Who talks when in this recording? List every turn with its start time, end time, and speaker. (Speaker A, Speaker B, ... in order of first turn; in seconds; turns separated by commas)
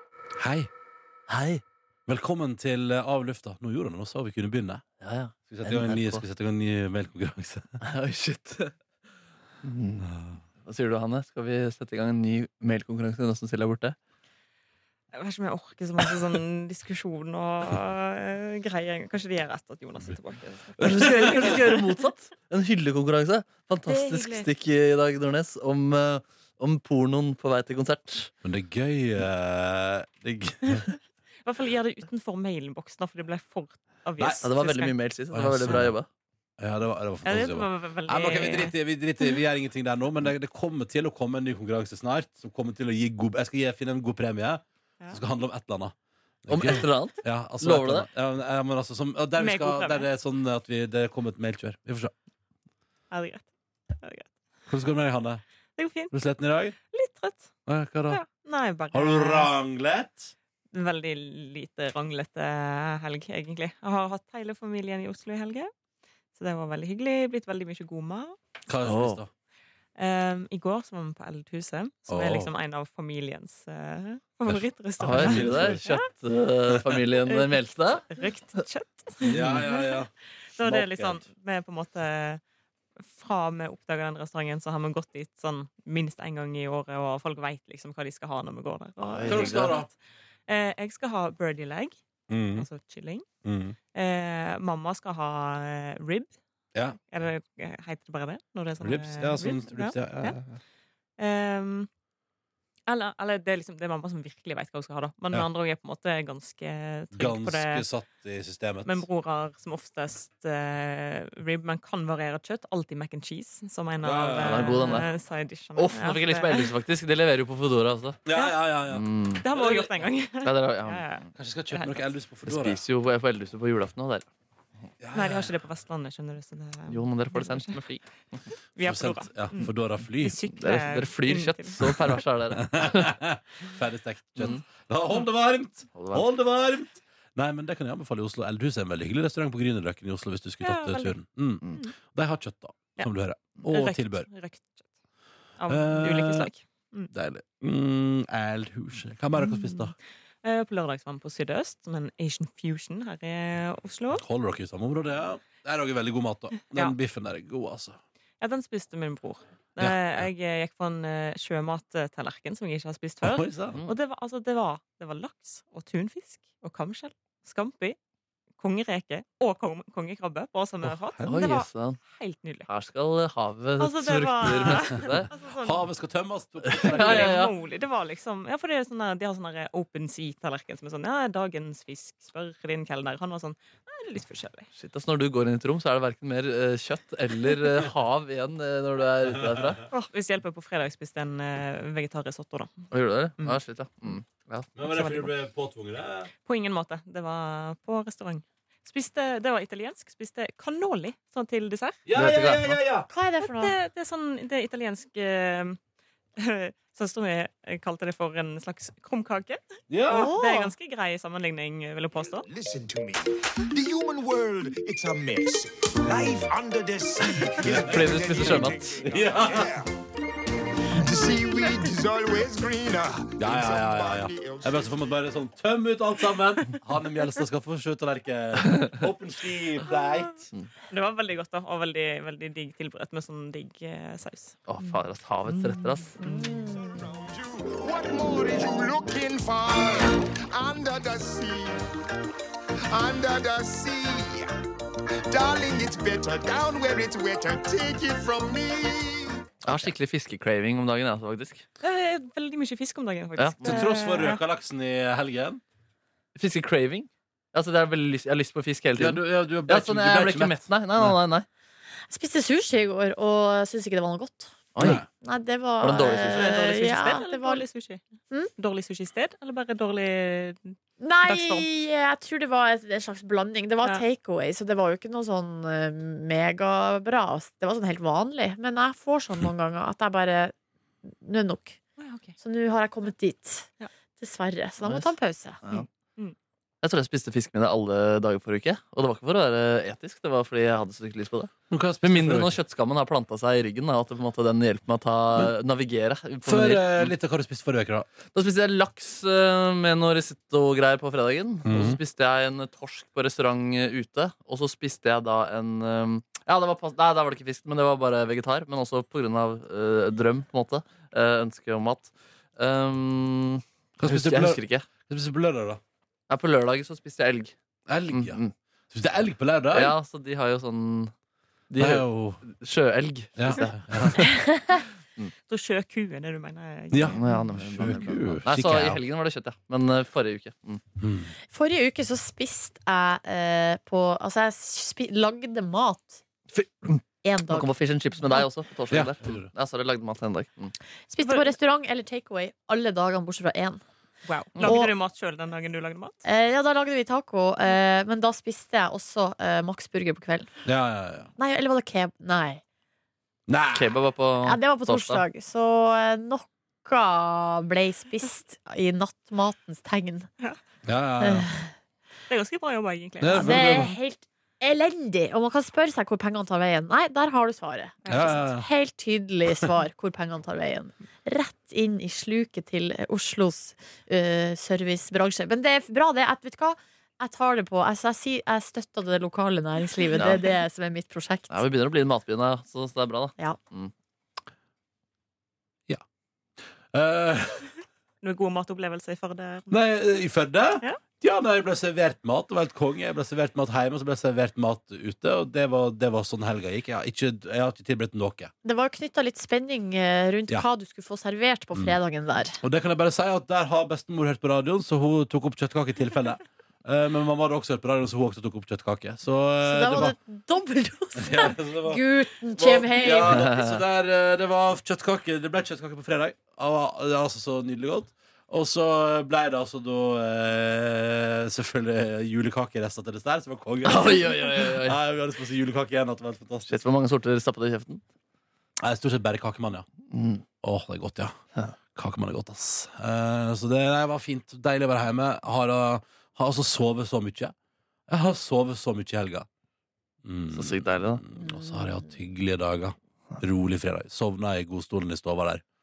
Speaker A: 0.4-0.7, Speaker B: 1.3-1.6, Speaker A: 2.0-4.8, Speaker B: 5.0-6.2, Speaker A: 5.5-7.7, Speaker B: 7.8-8.7, Speaker B: 9.6-10.1, Speaker A: 10.0-10.4, Speaker B: 10.6-13.9, Speaker C: 15.1-21.9, Speaker A: 20.8-21.4, Speaker B: 20.8-28.3, Speaker C: 23.9-24.5, Speaker A: 28.4-30.9, Speaker C: 31.4-34.9, Speaker B: 34.4-36.1, Speaker A: 35.3-36.0, Speaker A: 36.6-45.9, Speaker C: 37.2-38.7, Speaker A: 46.4-52.1, Speaker B: 46.5-48.1, Speaker C: 49.4-50.1, Speaker C: 53.1-54.3, Speaker A: 54.7-55.4, Speaker C: 55.8-56.1, Speaker A: 56.1-56.8, Speaker C: 56.9-57.5, Speaker A: 57.7-58.2, Speaker C: 58.1-59.5, Speaker A: 58.9-60.3, Speaker C: 60.7-65.7, Speaker C: 66.3-68.4, Speaker A: 68.7-69.3, Speaker B: 68.8-69.2, Speaker C: 70.0-76.0, Speaker A: 72.1-72.5, Speaker A: 74.5-75.8, Speaker B: 75.0-78.0, Speaker A: 76.7-77.0, Speaker C: 77.2-80.0, Speaker B: 79.2-79.6, Speaker A: 79.2-81.2, Speaker C: 80.5-82.4, Speaker C: 83.1-89.9, Speaker B: 89.0-89.8, Speaker A: 89.2-89.9, Speaker C: 90.5-92.0, Speaker A: 92.3-92.7, Speaker C: 92.5-93.2, Speaker A: 93.4-93.8, Speaker C: 93.9-96.3, Speaker C: 97.1-100.4, Speaker A: 98.8-100.6, Speaker C: 101.2-101.9, Speaker C: 102.9-107.9, Speaker A: 107.1-109.0, Speaker C: 108.8-116.7, Speaker A: 114.0-115.0, Speaker B: 114.4-115.1, Speaker B: 115.8-118.2, Speaker A: 118.2-120.0, Speaker C: 118.3-118.6, Speaker B: 118.9-119.4, Speaker C: 119.4-122.0, Speaker B: 120.4-121.2, Speaker A: 121.3-122.8, Speaker B: 122.5-124.3, Speaker A: 125.0-125.5, Speaker C: 125.1-127.8, Speaker B: 126.9-128.4, Speaker C: 128.8-132.1, Speaker A: 128.8-130.4, Speaker B: 130.6-133.1, Speaker A: 132.6-144.3, Speaker B: 135.9-136.2, Speaker C: 140.6-141.2, Speaker C: 143.6-144.9, Speaker C: 145.6-147.1, Speaker A: 145.7-146.5, Speaker A: 147.1-149.9, Speaker C: 149.3-149.9, Speaker C: 150.4-154.2, Speaker A: 154.2-158.0, Speaker C: 158.4-168.0, Speaker A: 159.8-160.3, Speaker A: 163.2-163.8, Speaker C: 168.6-172.7, Speaker A: 170.8-171.4, Speaker B: 171.2-172.0, Speaker B: 172.7-175.3, Speaker C: 173.8-175.8, Speaker A: 174.6-177.4, Speaker B: 176.6-177.5, Speaker C: 176.8-184.7, Speaker B: 184.8-189.8, Speaker A: 189.3-189.8, Speaker C: 189.9-192.8, Speaker B: 192.9-194.7, Speaker A: 194.8-196.3, Speaker C: 194.9-195.3, Speaker C: 196.4-202.0, Speaker A: 202.1-203.1, Speaker B: 202.1-202.8, Speaker D: 203.1-203.8, Speaker C: 203.4-205.8, Speaker C: 206.4-209.6, Speaker A: 209.9-210.3, Speaker D: 210.1-210.7, Speaker C: 210.1-212.4, Speaker E: 212.5-219.9, Speaker A: 217.6-219.8, Speaker B: 217.8-218.9, Speaker E: 220.9-225.1, Speaker A: 223.4-230.5, Speaker C: 230.9-234.6, Speaker B: 234.7-236.2, Speaker D: 236.2-237.0, Speaker E: 236.6-241.9, Speaker E: 242.9-244.5, Speaker E: 245.3-249.4, Speaker B: 249.6-251.6, Speaker C: 251.8-254.4, Speaker B: 253.4-253.8, Speaker A: 253.6-255.6, Speaker B: 256.3-261.4, Speaker A: 258.9-261.2, Speaker D: 262.1-264.5, Speaker B: 264.7-265.0, Speaker A: 264.8-265.1, Speaker D: 265.2-267.6, Speaker B: 265.8-266.5, Speaker C: 266.1-268.0, Speaker C: 268.6-271.7, Speaker D: 271.0-280.5, Speaker D: 281.1-281.8, Speaker C: 282.0-282.3, Speaker D: 282.4-285.6, Speaker C: 285.7-286.4, Speaker B: 286.8-297.1, Speaker A: 291.7-292.6, Speaker A: 296.4-298.1, Speaker B: 298.3-314.9, Speaker A: 301.6-302.0, Speaker A: 314.0-315.8, Speaker B: 316.3-317.5, Speaker A: 317.9-318.4, Speaker B: 318.1-318.5, Speaker A: 318.9-319.9, Speaker B: 319.7-321.1, Speaker B: 321.7-324.4, Speaker A: 321.8-322.4, Speaker A: 323.4-324.3, Speaker D: 324.3-324.8, Speaker C: 325.5-327.3, Speaker A: 326.9-329.0, Speaker B: 327.0-330.8, Speaker A: 331.0-331.3, Speaker D: 331.5-336.2, Speaker B: 336.5-340.7, Speaker D: 337.2-337.7, Speaker A: 338.9-339.5, Speaker D: 341.1-343.8, Speaker C: 341.2-341.5, Speaker C: 344.2-346.2, Speaker D: 344.6-344.9, Speaker D: 346.2-350.5, Speaker A: 350.6-351.3, Speaker D: 351.4-352.6, Speaker A: 353.5-354.0, Speaker B: 353.7-355.2, Speaker D: 354.4-360.3, Speaker A: 360.9-361.5, Speaker D: 361.2-361.7, Speaker C: 362.3-364.0, Speaker A: 363.2-363.9, Speaker D: 363.3-381.7, Speaker C: 368.0-368.4, Speaker A: 368.1-368.6, Speaker B: 380.1-380.5, Speaker B: 381.5-383.9, Speaker A: 386.9-387.7, Speaker C: 388.2-389.7, Speaker A: 389.7-398.5, Speaker D: 398.6-402.6, Speaker A: 402.6-410.1, Speaker D: 409.6-413.4, Speaker A: 411.1-412.0, Speaker A: 412.5-426.8, Speaker B: 413.3-413.8, Speaker B: 423.9-425.0, Speaker B: 426.7-428.0, Speaker A: 428.8-429.9, Speaker B: 430.1-430.4, Speaker A: 430.6-431.4, Speaker A: 431.9-437.5, Speaker A: 438.1-439.5, Speaker A: 440.2-445.6, Speaker B: 440.5-441.2, Speaker D: 441.4-441.7